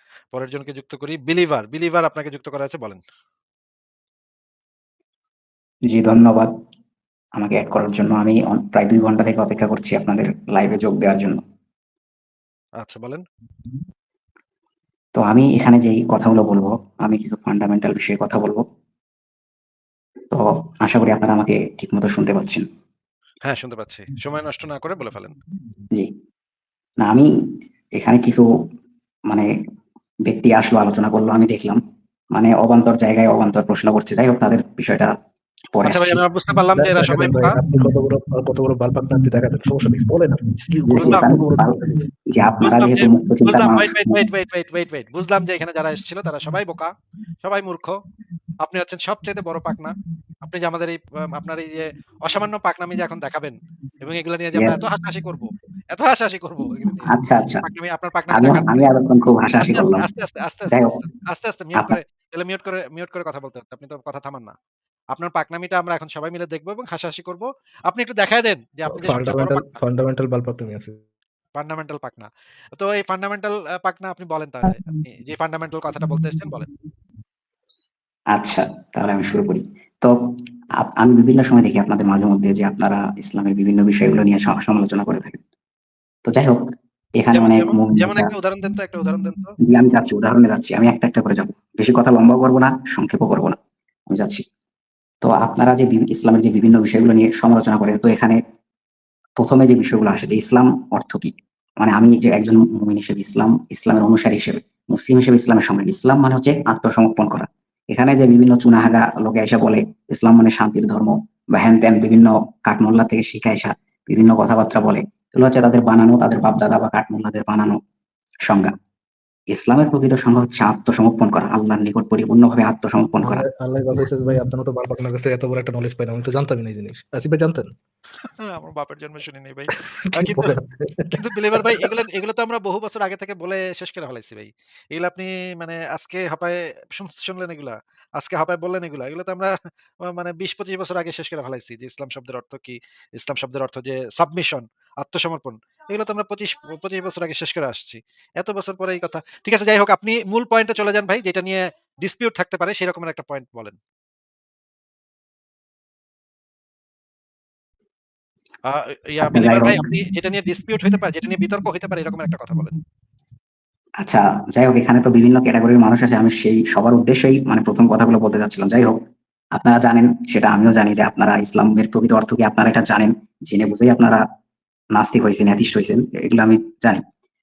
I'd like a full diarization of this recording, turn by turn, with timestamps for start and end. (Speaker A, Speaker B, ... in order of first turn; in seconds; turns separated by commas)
Speaker A: 0.3-3.0, Speaker B: 5.9-6.5, Speaker B: 7.4-11.4, Speaker A: 12.8-13.2, Speaker B: 15.2-18.6, Speaker B: 20.3-22.6, Speaker A: 23.5-25.4, Speaker B: 27.0-27.3, Speaker B: 28.0-28.5, Speaker B: 30.3-31.8, Speaker B: 32.3-35.1, Speaker B: 35.7-36.2, Speaker A: 35.8-37.5, Speaker C: 36.7-41.7, Speaker B: 40.9-44.2, Speaker A: 42.6-46.9, Speaker A: 47.4-48.0, Speaker A: 48.6-49.9, Speaker A: 50.5-58.9, Speaker B: 54.5-54.8, Speaker B: 57.1-57.6, Speaker B: 58.3-60.1, Speaker A: 59.6-64.5, Speaker B: 60.7-61.0, Speaker A: 65.1-69.7, Speaker C: 69.0-71.0, Speaker A: 71.6-76.7, Speaker B: 78.3-80.2, Speaker B: 80.8-85.4, Speaker B: 86.3-86.7, Speaker B: 87.2-88.3, Speaker A: 87.3-89.5, Speaker B: 89.6-93.6, Speaker B: 94.1-94.4, Speaker B: 95.2-98.4, Speaker B: 99.4-117.8, Speaker B: 118.5-118.7, Speaker B: 119.5-123.4, Speaker C: 123.2-127.7, Speaker A: 128.4-130.6, Speaker C: 130.1-131.9, Speaker A: 131.1-139.5, Speaker A: 140.0-153.8, Speaker A: 158.7-162.8, Speaker B: 159.2-159.8, Speaker B: 164.0-169.0, Speaker B: 169.6-174.2, Speaker B: 174.9-177.0